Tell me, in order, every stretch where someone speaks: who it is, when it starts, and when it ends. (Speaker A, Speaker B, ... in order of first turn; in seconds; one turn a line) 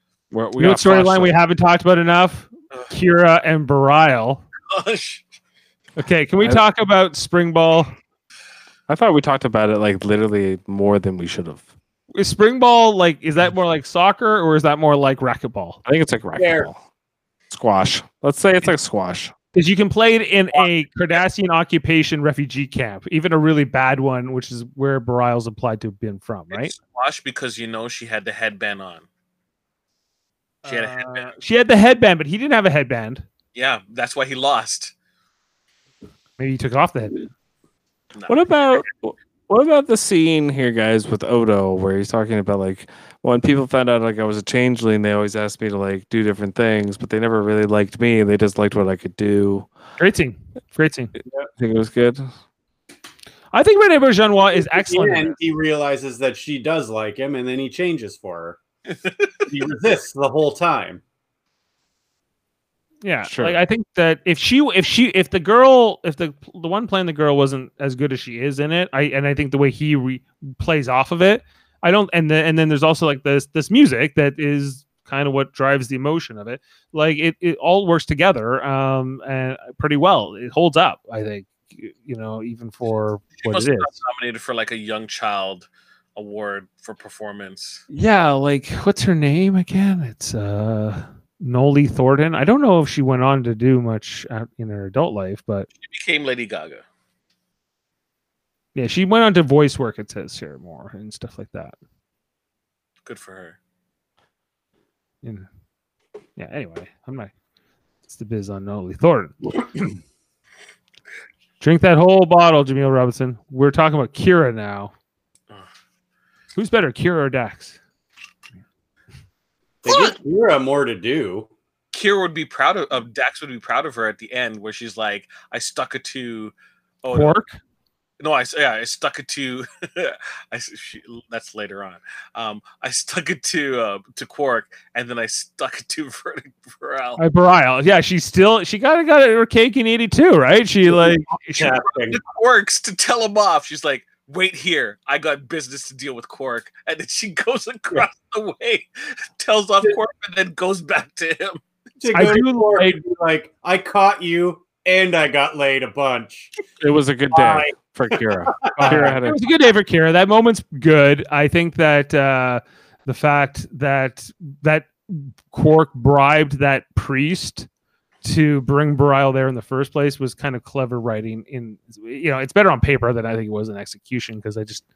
Speaker A: 0.3-1.3
Speaker B: 0.6-4.4
Speaker C: 4.7-5.2
Speaker B: 6.0-7.9
Speaker A: 8.9-11.7
Speaker B: 12.1-15.8
Speaker A: 15.8-16.8
Speaker D: 16.4-16.7
Speaker A: 17.5-19.3
Speaker B: 19.5-26.7
Speaker C: 26.5-29.1
Speaker B: 30.6-33.2
Speaker C: 30.7-31.3
Speaker C: 33.5-34.9
Speaker B: 36.4-37.3
Speaker A: 38.3-49.7
Speaker B: 50.0-51.1
Speaker A: 51.6-52.3
Speaker B: 53.5-55.4
Speaker D: 54.6-58.6
Speaker C: 58.9-59.3
Speaker D: 59.4-61.0
Speaker B: 63.0-83.9
Speaker A: 63.2-63.6
Speaker C: 83.4-87.8
Speaker B: 87.9-95.7
Speaker C: 95.8-96.8
Speaker B: 98.7-101.8
Speaker C: 103.0-103.6
Speaker B: 106.3-107.3
Speaker B: 108.0-109.9
Speaker B: 111.6-114.9
Speaker B: 116.5-117.8
Speaker D: 119.8-121.5
Speaker C: 119.9-120.1
Speaker C: 121.9-126.5
Speaker C: 127.0-127.3
Speaker B: 127.1-127.6
Speaker C: 128.2-137.2
Speaker B: 137.2-141.7
Speaker D: 140.9-142.2
Speaker C: 141.6-151.6
Speaker D: 152.0-156.5
Speaker B: 152.1-153.0
Speaker A: 156.8-159.4
Speaker D: 157.3-159.2
Speaker B: 158.8-167.7
Speaker B: 168.2-174.8